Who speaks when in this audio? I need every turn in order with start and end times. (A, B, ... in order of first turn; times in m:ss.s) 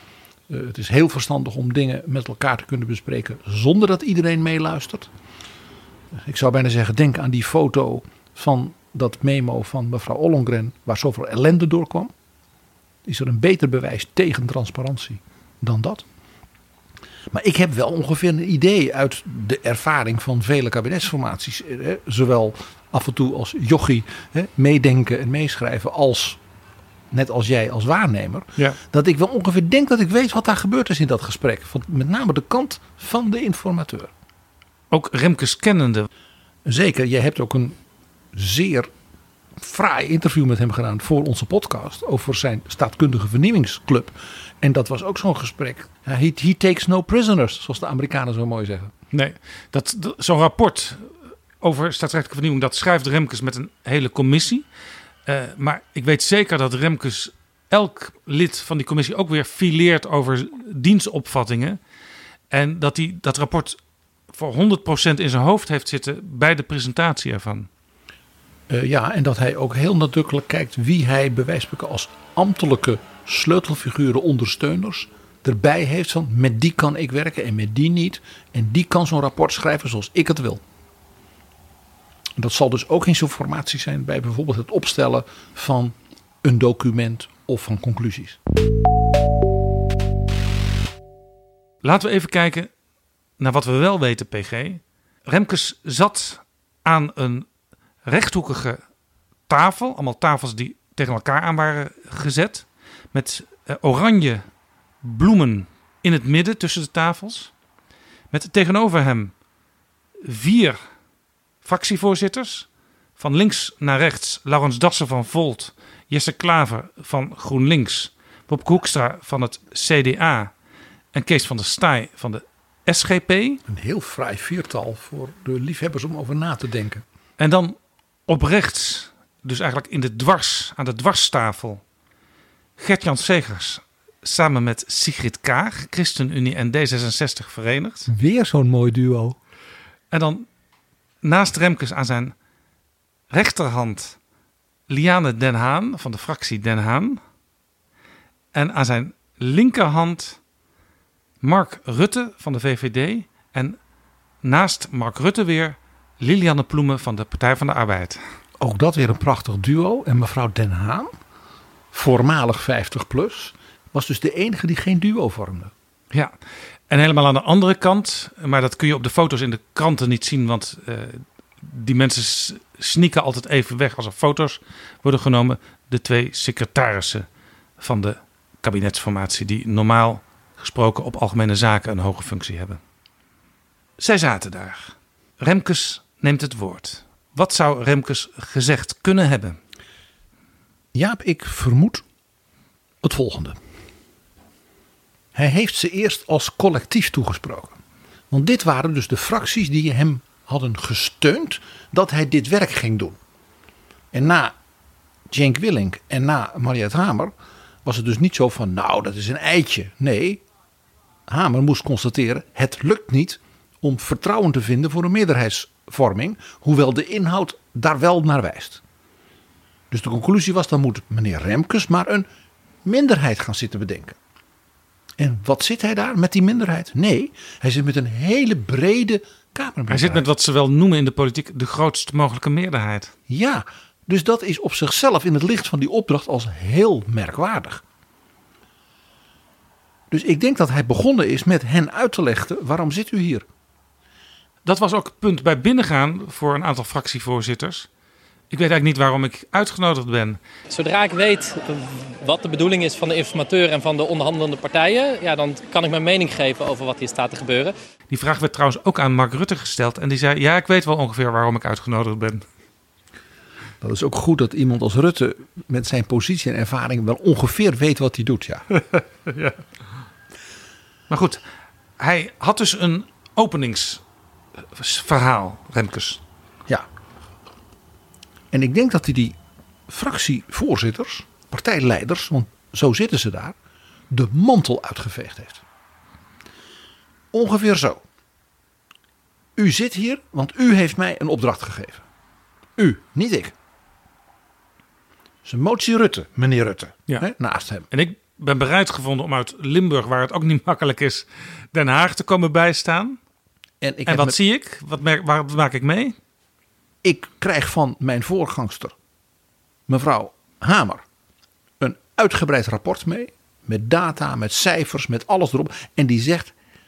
0:00.5-0:05.1 A
0:06.2-0:12.1 A
0:13.0-0:16.0 A
0:17.3-0:26.4 A
0:27.1-0:34.1 A
0:34.9-0:36.1 B
0:36.6-0:37.8 A
0:38.3-0:38.9 A
0:39.6-0:48.9 A
0:49.1-0:54.6 B
0:55.2-1:01.8 B
1:02.5-1:03.8 B
1:04.3-1:07.7 B
1:08.7-1:20.6 A
1:22.4-1:28.4 A
1:31.8-1:32.7 B
1:33.4-1:37.5 B
1:38.0-1:38.8 B
1:39.5-1:44.4 B
1:45.0-1:47.5 B
1:48.3-1:49.3 B
1:50.2-1:50.8 B
1:51.6-2:00.5 B
2:01.1-2:03.6 B
2:03.7-2:07.0 A
2:07.4-2:11.8 B
2:12.8-2:18.1 B
2:18.1-2:19.4 A
2:20.1-2:20.4 B
2:21.2-2:22.3 B
2:23.3-2:24.2 B
2:24.9-2:27.2 B
2:28.5-2:30.4 B
2:31.4-2:33.8 B
2:34.4-2:38.2 B
2:38.6-2:41.1 A
2:41.9-2:45.7 A
2:46.9-2:57.2 B
2:57.8-3:02.8 B
3:04.0-3:09.6 B
3:10.9-3:12.0 A
3:13.0-3:13.6 A
3:15.3-3:17.8 A
3:18.3-3:23.2 A
3:24.1-3:24.5 A
3:25.3-3:27.3 A
3:27.8-3:30.4 A
3:31.3-3:38.8 A
3:39.9-3:42.3 A
3:42.8-3:44.2 A
3:45.2-3:50.2 A
3:49.9-3:53.1 B
3:53.3-3:57.8 A
4:00.1-4:03.4 A
4:04.6-4:07.9 B
4:08.5-4:10.4 B
4:10.7-4:17.7 C
4:18.1-4:22.4 B
4:23.8-4:28.6 A
4:31.1-4:31.4 B
4:32.0-4:34.0 B
4:34.7-4:36.2 B
4:38.5-4:39.4 A
4:39.9-4:43.6 A
4:44.1-4:45.6 A
4:47.3-4:48.0 A
4:49.6-4:52.0 A
4:52.8-4:53.5 A
4:55.4-4:57.9 A
4:57.9-5:03.2 B
5:03.8-5:04.4 A
5:04.1-5:06.2 B
5:07.0-5:08.9 A
5:09.9-5:11.0 A
5:11.8-5:16.5 A